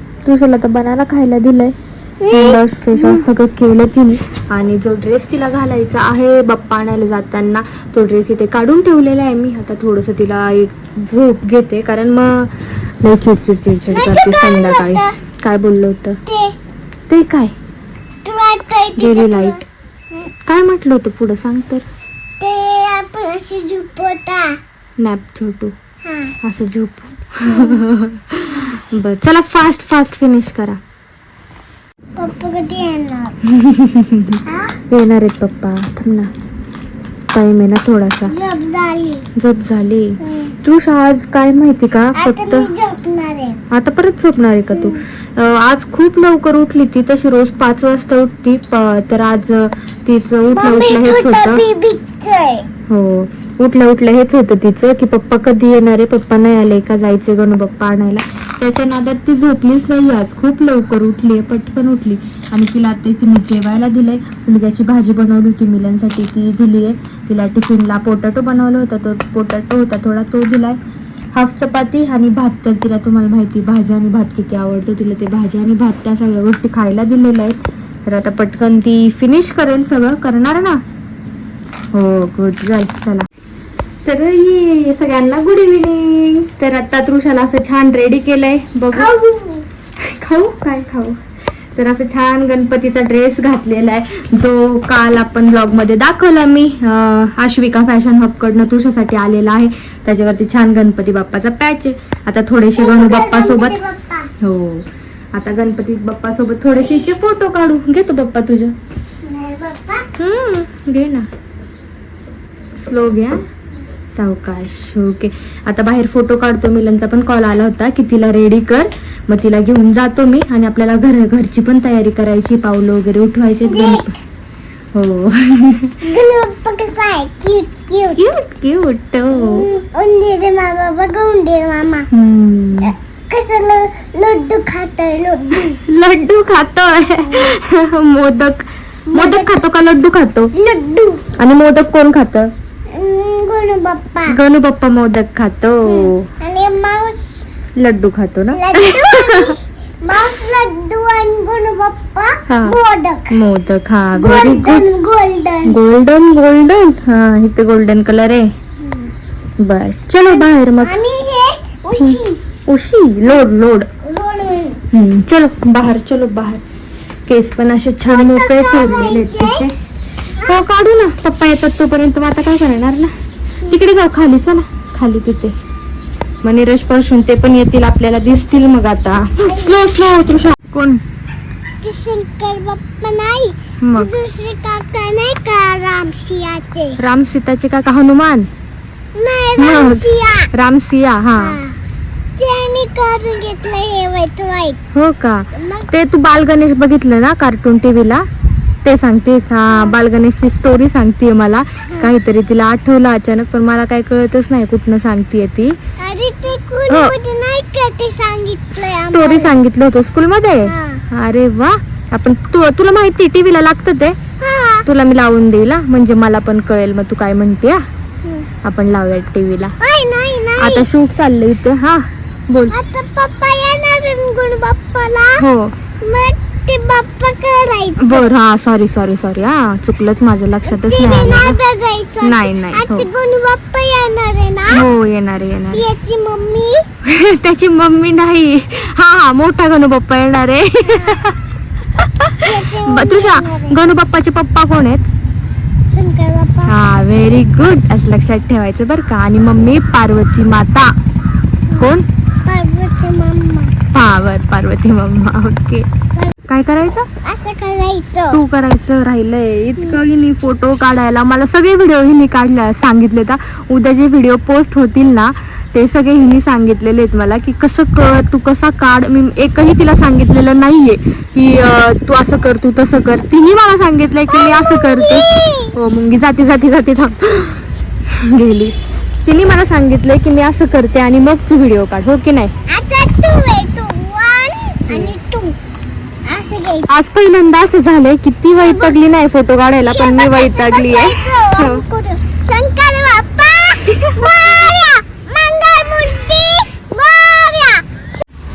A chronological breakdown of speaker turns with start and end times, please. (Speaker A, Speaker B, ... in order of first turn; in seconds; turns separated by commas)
Speaker A: 0.2-1.7, Speaker B: 2.2-3.2, Speaker A: 2.3-16.2, Speaker B: 13.9-15.1, Speaker B: 16.3-16.5, Speaker A: 17.1-17.5, Speaker B: 18.2-19.6, Speaker A: 19.0-19.6, Speaker A: 20.4-21.8, Speaker B: 22.4-24.5, Speaker A: 25.0-25.7, Speaker B: 26.0-26.3, Speaker A: 26.4-30.8, Speaker B: 27.4-27.8, Speaker B: 32.2-33.4, Speaker A: 33.5-36.3, Speaker B: 34.5-34.7, Speaker A: 37.3-38.3, Speaker B: 38.3-39.3, Speaker A: 39.4-42.7, Speaker B: 40.2-40.5, Speaker B: 42.2-43.6, Speaker A: 43.7-51.6, Speaker B: 44.7-45.0, Speaker B: 50.5-52.7, Speaker A: 52.9-70.8, Speaker A: 71.3-80.8, Speaker A: 81.9-83.2, Speaker A: 84.0-89.1, Speaker B: 88.9-89.7, Speaker A: 90.0-91.2, Speaker A: 91.8-103.8, Speaker B: 102.8-104.3, Speaker A: 104.4-108.7, Speaker B: 106.7-107.1, Speaker B: 109.2-110.1, Speaker A: 110.2-111.3, Speaker A: 112.8-113.4, Speaker A: 114.1-124.1, Speaker B: 123.7-124.0, Speaker A: 124.9-126.0, Speaker B: 126.0-128.2, Speaker A: 128.2-129.6, Speaker B: 129.3-132.1, Speaker A: 132.1-132.9, Speaker B: 132.8-135.8, Speaker A: 135.9-140.5, Speaker B: 139.1-139.5, Speaker B: 140.6-141.2, Speaker A: 141.4-142.5, Speaker B: 142.9-144.3, Speaker A: 144.3-146.2, Speaker B: 145.9-147.4, Speaker A: 147.8-149.5, Speaker B: 148.5-153.3, Speaker A: 152.5-152.8, Speaker A: 153.3-154.8, Speaker B: 154.2-155.7, Speaker A: 155.7-158.5, Speaker B: 158.8-159.1, Speaker A: 159.6-160.9, Speaker B: 160.2-162.4, Speaker A: 162.0-163.9, Speaker B: 164.0-164.8, Speaker A: 164.9-166.6, Speaker A: 167.3-169.7, Speaker B: 168.1-169.6, Speaker A: 170.4-173.1, Speaker A: 173.7-175.6, Speaker A: 176.4-181.0, Speaker B: 179.4-179.9, Speaker B: 181.8-187.0, Speaker A: 183.8-184.1, Speaker A: 187.0-188.5, Speaker B: 189.1-190.5, Speaker A: 189.6-191.6, Speaker B: 191.4-191.7, Speaker B: 192.4-194.8, Speaker A: 194.9-198.2, Speaker B: 195.6-195.9, Speaker A: 198.8-205.8, Speaker B: 206.0-209.5, Speaker A: 206.9-207.1, Speaker A: 208.8-214.2, Speaker B: 210.7-211.0, Speaker B: 214.4-214.8, Speaker A: 214.8-217.8, Speaker A: 218.6-219.7, Speaker B: 219.8-220.8, Speaker A: 220.6-222.8, Speaker B: 222.7-225.4, Speaker A: 225.4-225.7, Speaker B: 226.0-228.2, Speaker A: 228.0-231.6, Speaker B: 230.7-234.8, Speaker A: 232.2-233.1, Speaker A: 234.7-235.8, Speaker B: 235.7-236.8, Speaker A: 237.0-241.3, Speaker B: 240.9-241.2, Speaker A: 242.0-245.1, Speaker B: 242.4-243.8, Speaker B: 245.9-246.7, Speaker A: 246.7-250.9, Speaker A: 251.8-252.0, Speaker B: 252.4-253.7, Speaker A: 253.9-255.9, Speaker A: 256.5-257.1, Speaker B: 257.2-258.4, Speaker A: 258.3-282.5, Speaker B: 274.3-275.7, Speaker B: 282.7-285.6, Speaker B: 286.2-286.9, Speaker A: 286.9-291.8, Speaker B: 288.5-288.9, Speaker B: 289.9-298.2